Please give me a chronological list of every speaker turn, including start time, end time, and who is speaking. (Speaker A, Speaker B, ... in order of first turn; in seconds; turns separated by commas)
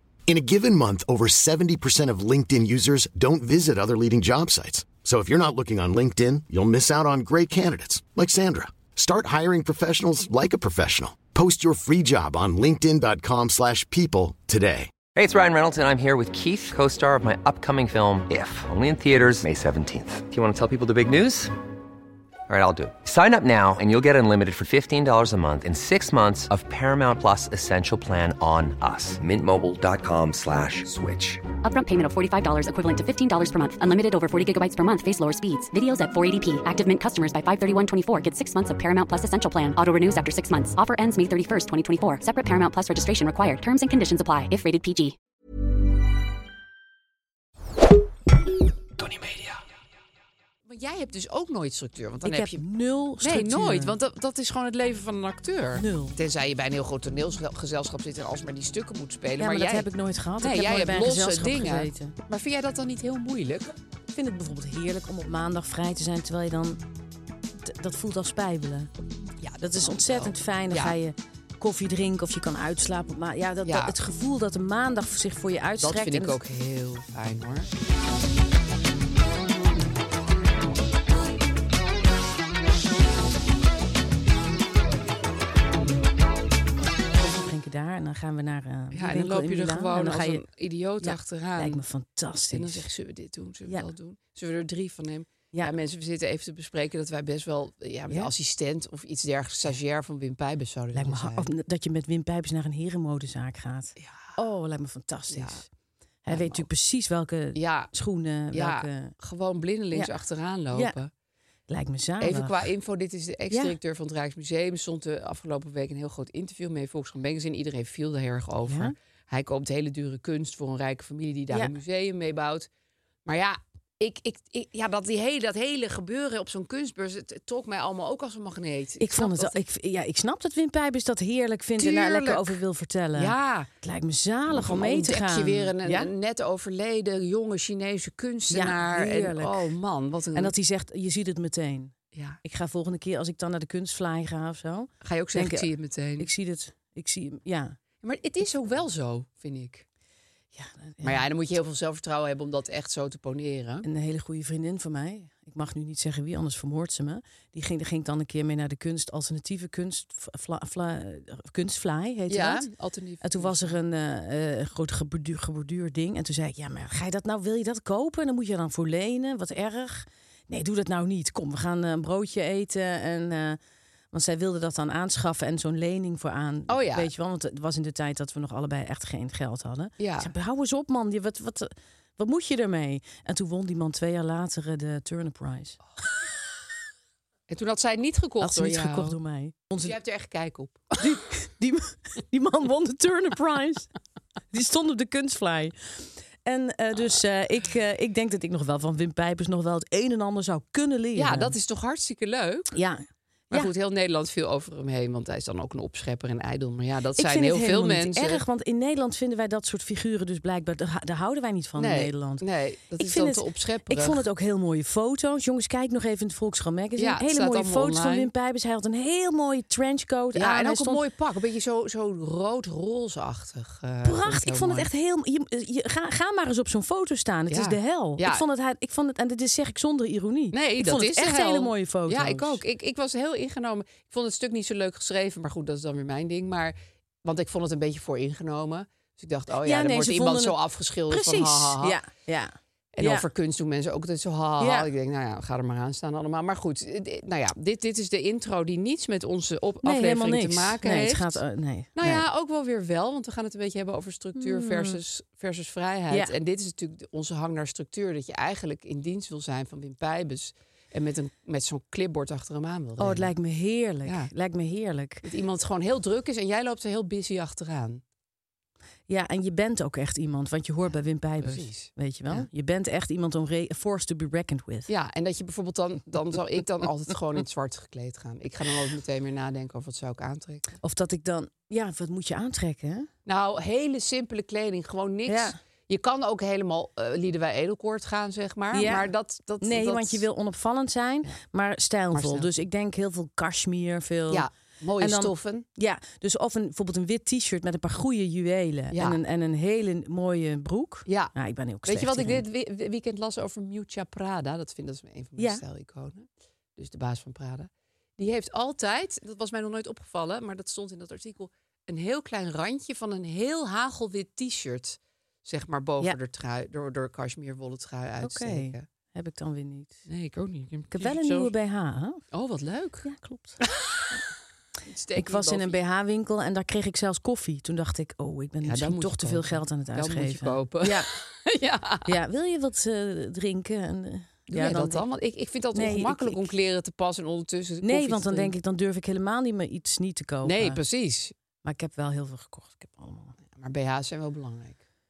Speaker A: 0.3-14.9, Speaker B: 15.1-21.5, Speaker B: 22.5-31.4, Speaker C: 31.6-45.1, Speaker D: 50.7-52.6, Speaker E: 52.2-54.0, Speaker D: 53.2-59.9, Speaker E: 55.7-56.1, Speaker E: 59.4-62.1, Speaker D: 60.4-63.7, Speaker E: 64.1-66.8, Speaker E: 67.6-68.9, Speaker D: 69.4-70.9, Speaker E: 69.6-76.3, Speaker D: 73.6-73.9, Speaker D: 75.8-77.7, Speaker E: 87.2-90.4, Speaker D: 88.9-91.8, Speaker E: 91.0-92.9, Speaker D: 92.5-101.5, Speaker E: 100.9-105.7, Speaker D: 104.0-104.4, Speaker D: 105.3-105.6, Speaker E: 106.2-109.1, Speaker D: 106.3-106.7, Speaker D: 107.5-107.9, Speaker D: 108.5-111.1, Speaker E: 111.7-112.7, Speaker D: 112.2-122.7, Speaker E: 113.5-113.8, Speaker E: 118.7-118.9, Speaker D: 123.2-129.6, Speaker E: 129.0-136.1, Speaker D: 131.8-132.6, Speaker D: 133.1-133.7, Speaker D: 134.5-140.5, Speaker E: 138.5-139.7, Speaker E: 140.3-145.7, Speaker D: 142.1-142.4, Speaker D: 145.0-146.3, Speaker E: 146.2-147.8, Speaker D: 148.0-149.8, Speaker E: 150.5-151.2, Speaker D: 151.0-153.8, Speaker E: 153.8-162.7, Speaker D: 162.3-163.8, Speaker E: 163.2-173.6, Speaker E: 174.1-185.8, Speaker D: 176.7-177.1, Speaker D: 180.0-180.3, Speaker D: 187.5-189.2, Speaker E: 188.4-189.9, Speaker D: 189.8-191.0, Speaker E: 191.0-193.9, Speaker E: 194.5-201.5, Speaker D: 201.1-202.7, Speaker E: 202.7-203.7, Speaker D: 203.5-208.4, Speaker E: 207.2-212.4, Speaker D: 211.8-214.2, Speaker E: 213.0-221.0, Speaker D: 217.0-218.3, Speaker D: 220.3-224.9, Speaker E: 224.0-232.6, Speaker D: 227.5-228.4, Speaker D: 230.5-242.0, Speaker E: 239.6-240.6, Speaker E: 241.1-243.2, Speaker D: 242.9-251.4, Speaker E: 244.6-244.9, Speaker E: 249.8-252.2, Speaker D: 251.9-263.3, Speaker E: 254.3-255.0, Speaker E: 263.0-265.2, Speaker D: 264.0-264.3, Speaker D: 265.2-268.0, Speaker E: 269.1-274.9, Speaker D: 271.4-272.5, Speaker D: 274.9-280.8, Speaker E: 280.8-283.1, Speaker D: 283.2-290.2, Speaker E: 285.3-285.6, Speaker E: 288.7-289.1, Speaker E: 289.6-294.5, Speaker D: 292.1-292.5, Speaker D: 294.3-295.6, Speaker E: 295.0-302.4, Speaker D: 298.9-299.2, Speaker D: 301.1-301.3, Speaker D: 301.8-318.8, Speaker E: 305.4-305.6, Speaker E: 318.2-320.0, Speaker D: 320.1-321.5, Speaker E: 320.9-322.2, Speaker D: 322.3-323.1, Speaker E: 323.0-323.6, Speaker D: 323.6-324.2, Speaker D: 324.9-325.8, Speaker E: 325.2-331.1, Speaker D: 328.6-332.1, Speaker E: 332.1-335.0, Speaker D: 334.5-338.5, Speaker E: 335.7-336.5, Speaker E: 337.8-340.8, Speaker D: 340.4-341.3, Speaker E: 341.6-343.4, Speaker D: 343.5-344.8